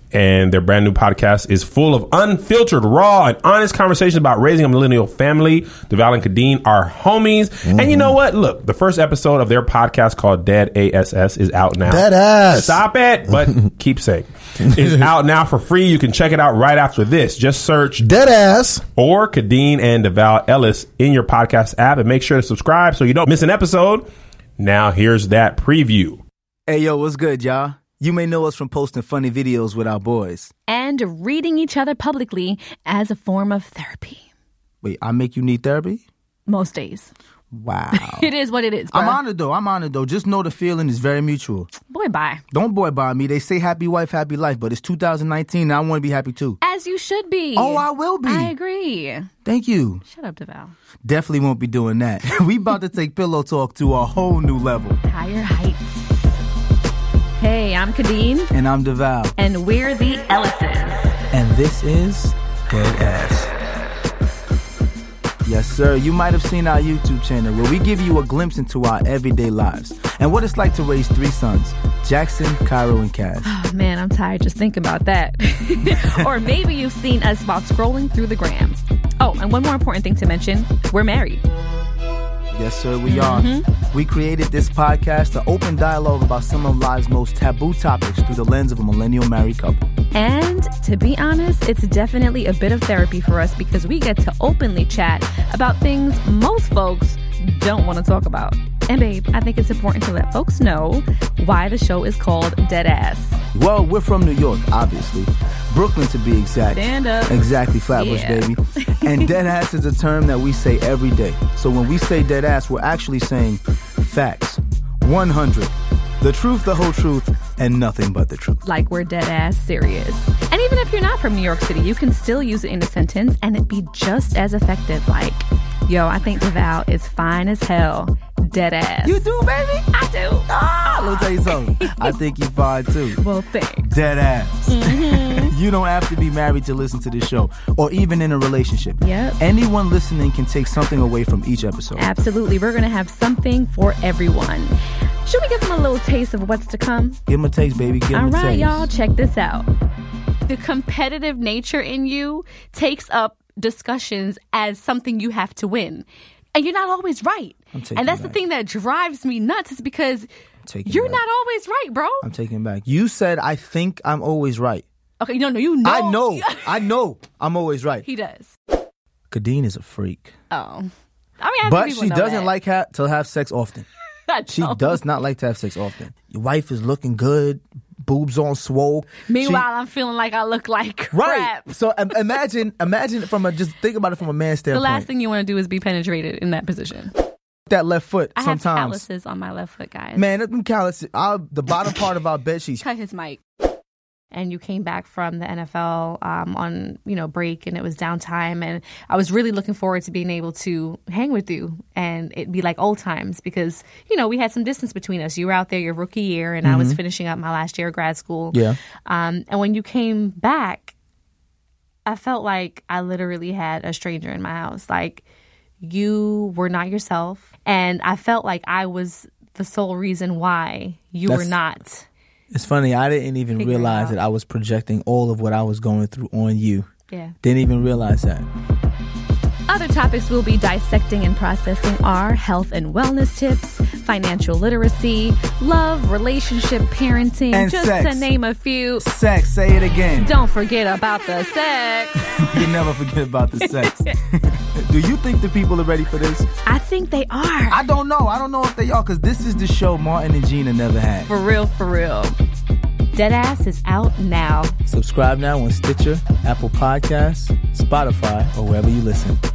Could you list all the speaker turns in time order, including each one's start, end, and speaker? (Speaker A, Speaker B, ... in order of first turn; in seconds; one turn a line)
Speaker A: 0.1-18.1
Speaker B: 7.7-8.1
Speaker B: 11.9-12.7
Speaker B: 18.0-18.8
Speaker A: 18.9-24.1
Speaker A: 24.6-26.2
Speaker C: 26.7-30.5
Speaker D: 30.7-34.2
Speaker C: 34.8-36.0
Speaker D: 36.5-37.1
Speaker C: 37.5-38.3
Speaker D: 37.9-39.2
Speaker C: 38.9-41.7
Speaker D: 41.9-42.4
Speaker C: 42.5-46.6
Speaker D: 46.6-49.3
Speaker C: 47.6-48.5
Speaker C: 49.5-50.0
Speaker D: 50.1-50.7
Speaker C: 51.0-55.0
Speaker D: 55.0-56.4
Speaker D: 57.4-58.5
Speaker C: 58.5-59.3
Speaker D: 59.4-61.2
Speaker C: 61.3-63.5
Speaker C: 65.5-73.5
Speaker D: 73.4-81.4
Speaker C: 82.5-89.9
Speaker D: 83.0-83.7
Speaker D: 90.1-103.4
Speaker C: 103.5-118.6
Speaker D: 106.7-109.4
Speaker D: 118.7-129.3
Speaker C: 129.1-129.8
Speaker D: 129.9-132.2
Speaker C: 130.5-133.2
Speaker D: 133.1-133.9
Speaker C: 133.8-142.1
Speaker D: 134.7-135.6
Speaker D: 139.0-139.4
Speaker D: 142.0-147.2
Speaker C: 147.3-148.9
Speaker D: 148.1-149.7
Speaker D: 150.5-160.3
Speaker C: 157.7-158.4
Speaker C: 160.7-161.2
Speaker D: 160.9-162.2
Speaker C: 162.2-164.8
Speaker D: 165.2-166.9
Speaker C: 165.8-168.1
Speaker D: 168.0-168.6
Speaker C: 169.3-170.3
Speaker D: 170.5-172.5
Speaker C: 171.6-173.9
Speaker D: 174.3-175.0
Speaker C: 174.5-179.7
Speaker D: 179.3-182.0
Speaker C: 181.1-185.1
Speaker D: 184.7-187.1
Speaker C: 187.7-189.0
Speaker D: 188.4-190.4
Speaker C: 190.2-192.8
Speaker D: 192.8-193.4
Speaker D: 194.3-210.9
Speaker C: 206.6-207.0
Speaker C: 208.5-208.8
Speaker D: 212.1-215.2
Speaker D: 215.8-222.1
Speaker C: 221.3-221.6
Speaker C: 222.5-226.9
Speaker D: 223.6-224.2
Speaker D: 227.1-227.3
Speaker C: 227.4-228.5
Speaker D: 229.7-239.1
Speaker C: 237.5-238.3
Speaker C: 239.0-240.3
Speaker D: 240.2-242.9
Speaker C: 242.5-246.5
Speaker D: 243.6-244.2
Speaker D: 246.7-247.8
Speaker C: 247.7-251.3
Speaker D: 251.3-252.4
Speaker D: 253.1-254.8
Speaker C: 254.9-259.4